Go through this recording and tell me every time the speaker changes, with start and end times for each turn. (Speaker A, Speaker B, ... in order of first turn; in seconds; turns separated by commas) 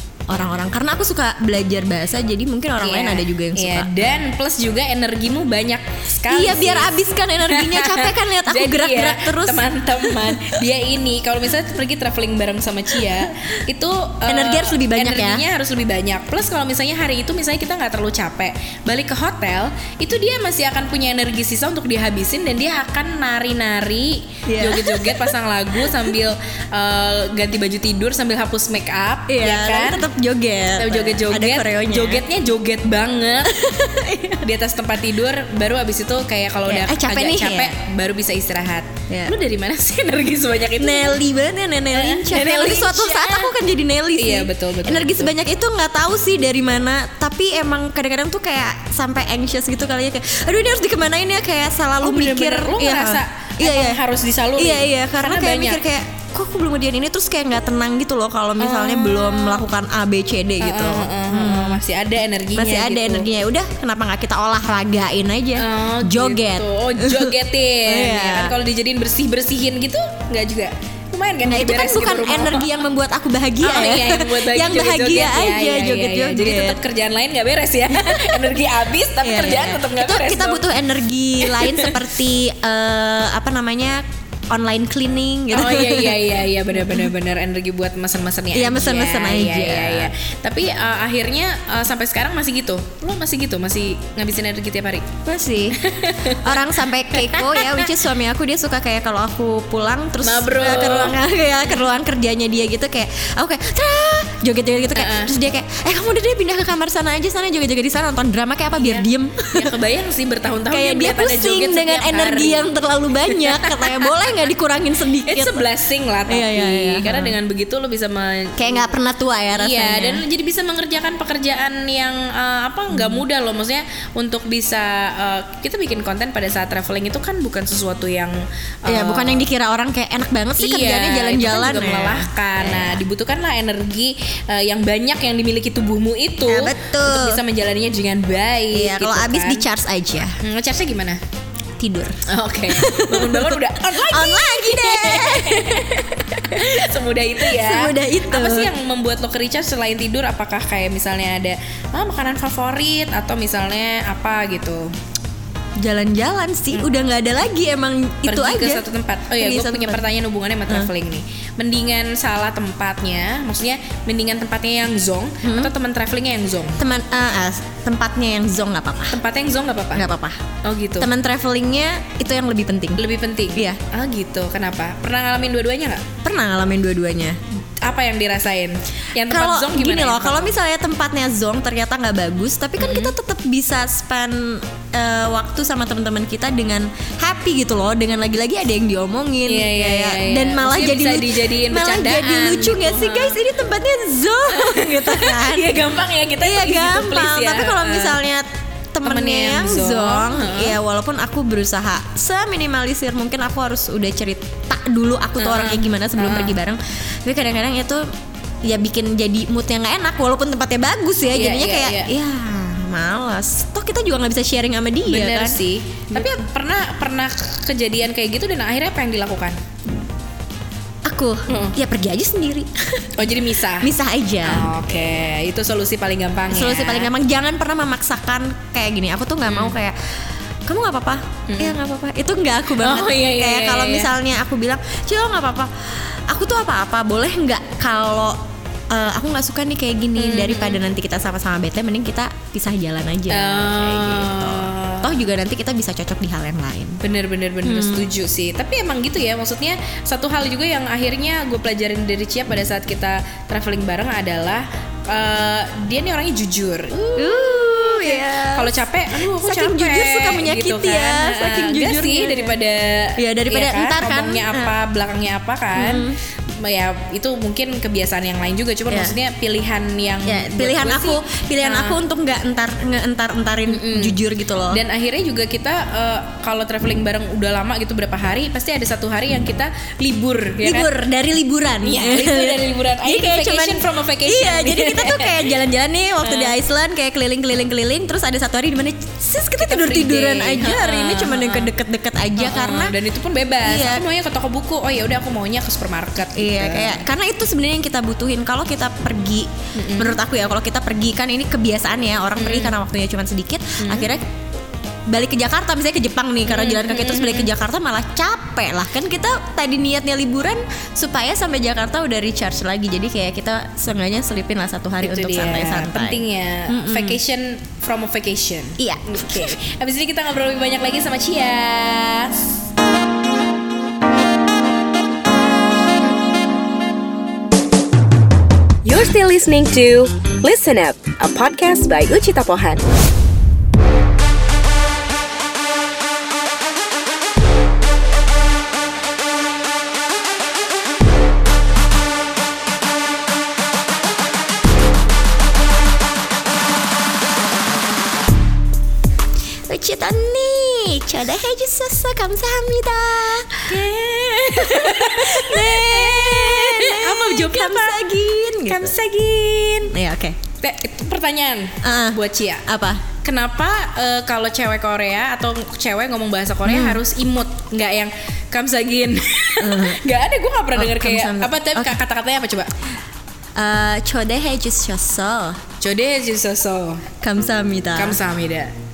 Speaker A: 0.3-4.1, Speaker B: 2.8-6.9, Speaker A: 6.3-10.6, Speaker B: 7.5-30.1, Speaker A: 14.3-15.4, Speaker A: 24.4-25.9, Speaker A: 29.3-32.2, Speaker B: 30.7-33.8, Speaker A: 33.5-34.4, Speaker B: 34.3-41.2, Speaker A: 36.6-37.7, Speaker A: 39.1-39.3, Speaker A: 40.8-54.0, Speaker B: 41.9-43.5, Speaker B: 44.1-45.3, Speaker B: 52.0-55.8, Speaker A: 54.6-61.8, Speaker B: 58.6-59.6, Speaker B: 60.6-63.3, Speaker A: 62.5-67.3, Speaker B: 65.6-72.8, Speaker A: 67.8-68.5, Speaker A: 71.4-76.8, Speaker B: 73.6-80.7, Speaker A: 77.9-78.5, Speaker A: 79.2-86.2, Speaker B: 81.4-82.0, Speaker B: 85.5-95.1, Speaker A: 88.5-90.1, Speaker A: 95.2-109.7, Speaker B: 95.8-97.9, Speaker B: 100.2-101.8, Speaker B: 104.9-105.3, Speaker B: 108.7-112.7, Speaker A: 110.7-115.7, Speaker B: 113.3-114.5, Speaker B: 115.2-118.9, Speaker A: 116.3-117.3, Speaker A: 118.6-120.2, Speaker B: 119.5-129.5, Speaker A: 122.9-123.2, Speaker A: 128.9-133.0, Speaker B: 130.6-139.7, Speaker A: 136.5-137.4, Speaker A: 138.7-140.4, Speaker B: 140.4-141.2, Speaker A: 141.8-145.8, Speaker B: 142.3-154.9, Speaker A: 146.6-146.8, Speaker A: 147.4-148.7, Speaker A: 155.8-158.8, Speaker B: 158.2-166.8, Speaker A: 159.4-160.0, Speaker A: 165.4-165.7, Speaker A: 166.8-169.2, Speaker B: 169.1-170.1, Speaker A: 169.9-170.4, Speaker B: 170.6-171.1, Speaker A: 171.0-173.0, Speaker B: 173.0-176.0, Speaker A: 173.5-173.8, Speaker A: 176.2-177.4, Speaker B: 177.8-180.6, Speaker A: 179.3-195.8, Speaker B: 182.8-183.2, Speaker B: 189.4-193.4, Speaker B: 194.5-198.2, Speaker A: 196.4-208.1, Speaker B: 199.0-200.8, Speaker B: 205.4-206.6, Speaker A: 208.6-215.6, Speaker B: 211.3-212.1, Speaker B: 215.1-219.6, Speaker A: 221.1-223.1, Speaker B: 221.5-221.8, Speaker B: 223.1-223.9, Speaker A: 223.7-224.8, Speaker B: 224.4-227.1, Speaker A: 226.5-229.9, Speaker B: 229.4-229.8, Speaker A: 230.7-238.4, Speaker B: 231.5-231.8, Speaker B: 232.7-234.1, Speaker A: 238.9-247.0, Speaker B: 240.2-240.8, Speaker B: 243.3-245.2, Speaker B: 247.0-272.0, Speaker A: 247.6-248.1, Speaker A: 257.1-262.5, Speaker A: 263.2-264.7, Speaker A: 265.8-266.2, Speaker A: 268.9-269.2, Speaker A: 270.2-274.8, Speaker B: 273.6-280.9, Speaker A: 280.6-292.9, Speaker B: 281.8-285.6, Speaker B: 286.2-286.6, Speaker B: 289.6-291.7, Speaker B: 292.4-297.1, Speaker A: 293.6-294.0, Speaker A: 296.4-304.2, Speaker B: 299.7-300.2, Speaker B: 302.4-302.8, Speaker B: 303.8-304.1, Speaker A: 305.1-317.2, Speaker B: 306.4-307.5, Speaker B: 315.0-322.6, Speaker A: 318.8-319.6, Speaker C: 328.8-332.8, Speaker A: 349.7-353.7, Speaker B: 353.7-358.1, Speaker A: 354.5-358.9, Speaker B: 358.6-359.9, Speaker A: 359.9-360.4, Speaker B: 360.6-362.6, Speaker A: 361.8-363.0, Speaker B: 363.2-372.7, Speaker A: 366.6-367.0, Speaker A: 369.6-370.0, Speaker A: 370.7-372.0, Speaker A: 373.6-375.6, Speaker B: 375.8-377.0, Speaker A: 377.2-378.2, Speaker B: 377.9-378.7